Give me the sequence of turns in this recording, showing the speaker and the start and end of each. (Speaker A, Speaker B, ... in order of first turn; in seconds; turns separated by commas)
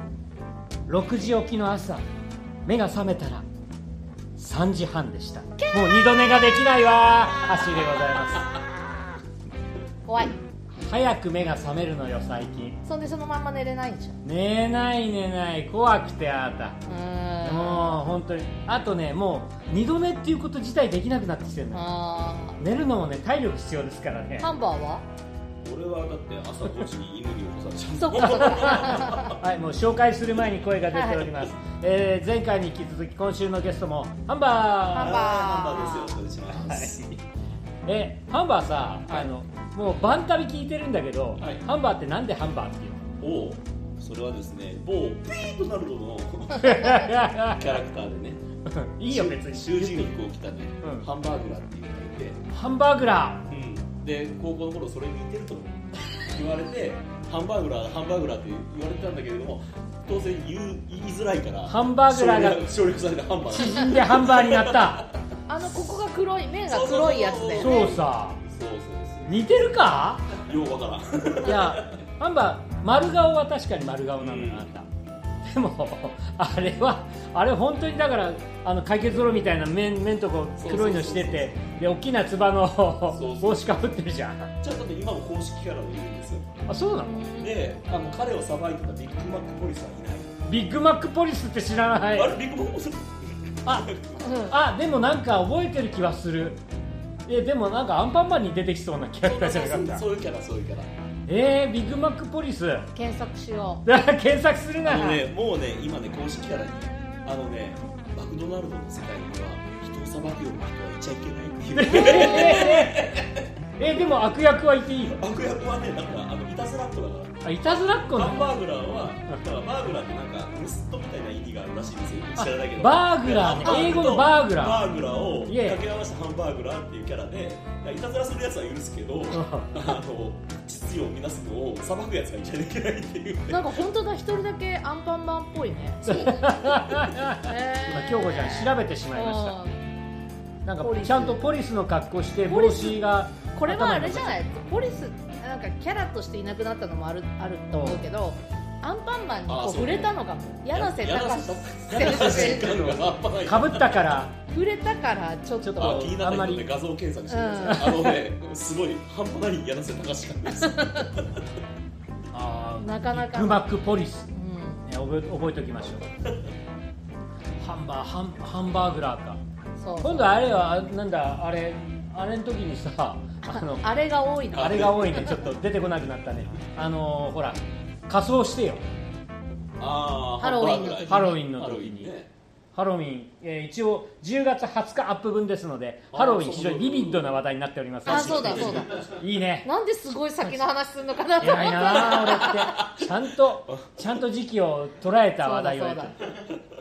Speaker A: 0.9-2.0, Speaker A: 2.6-3.5, Speaker A: 4.4-8.5, Speaker B: 5.6-6.2, Speaker B: 10.1-10.4, Speaker A: 10.8-12.8, Speaker B: 12.8-14.2, Speaker A: 14.2-16.8, Speaker B: 16.9-18.0, Speaker A: 17.4-21.9, Speaker B: 21.7-22.6, Speaker A: 22.6-24.5, Speaker B: 24.4-25.1, Speaker C: 25.6-29.4, Speaker B: 28.0-29.3, Speaker A: 28.2-35.2, Speaker B: 30.9-31.3, Speaker B: 34.9-36.2, Speaker C: 35.0-37.2, Speaker A: 36.5-37.1, Speaker A: 37.9-43.1, Speaker C: 41.4-41.7, Speaker C: 43.2-48.4, Speaker A: 46.6-47.8, Speaker A: 48.7-50.1, Speaker C: 49.1-52.4, Speaker A: 50.8-51.1, Speaker A: 52.5-53.5, Speaker C: 53.5-65.2, Speaker A: 61.7-62.6, Speaker A: 63.5-65.1, Speaker B: 65.5-68.0, Speaker C: 66.7-69.5, Speaker A: 67.6-68.4, Speaker A: 69.3-70.4, Speaker C: 70.3-72.0, Speaker A: 71.4-74.9, Speaker C: 74.2-74.7, Speaker A: 75.5-84.5, Speaker C: 80.6-81.6, Speaker C: 83.1-83.7, Speaker C: 84.6-86.5, Speaker A: 86.7-87.3, Speaker B: 87.0-87.6, Speaker C: 87.4-90.4, Speaker A: 90.5-92.3, Speaker C: 92.1-94.5, Speaker B: 94.2-94.5, Speaker A: 94.5-96.6, Speaker A: 97.3-100.0, Speaker C: 99.2-100.9, Speaker A: 101.3-102.9, Speaker B: 102.9-103.8, Speaker A: 103.9-105.2, Speaker C: 104.8-113.5, Speaker A: 111.8-113.2, Speaker A: 113.8-115.2, Speaker C: 115.1-117.5, Speaker A: 117.4-118.5, Speaker C: 118.0-133.7, Speaker A: 122.4-124.9, Speaker A: 125.5-125.8, Speaker A: 129.3-129.9, Speaker B: 133.5-136.5, Speaker C: 136.1-137.1, Speaker A: 136.1-139.6, Speaker B: 137.3-139.8, Speaker A: 140.7-144.4, Speaker B: 140.8-141.4, Speaker B: 142.5-152.8, Speaker A: 147.7-148.0, Speaker C: 149.5-154.1, Speaker A: 152.0-154.3, Speaker B: 154.5-156.1, Speaker A: 155.6-156.7, Speaker C: 155.8-161.5, Speaker B: 157.3-157.9, Speaker A: 157.7-158.2, Speaker B: 160.6-161.1, Speaker A: 162.3-164.3, Speaker B: 162.8-163.7, Speaker B: 164.3-164.8, Speaker A: 164.8-166.1, Speaker A: 167.6-169.4, Speaker B: 169.8-170.4, Speaker A: 170.0-173.9, Speaker B: 173.5-175.4, Speaker A: 174.5-178.8, Speaker C: 174.5-175.4, Speaker C: 179.8-182.3, Speaker B: 180.4-181.4, Speaker A: 180.6-182.1, Speaker A: 182.7-189.7, Speaker C: 186.1-187.4, Speaker C: 188.1-189.2, Speaker B: 188.1-189.1, Speaker B: 189.6-192.8, Speaker A: 191.4-196.3, Speaker C: 191.9-194.0, Speaker B: 195.4-196.2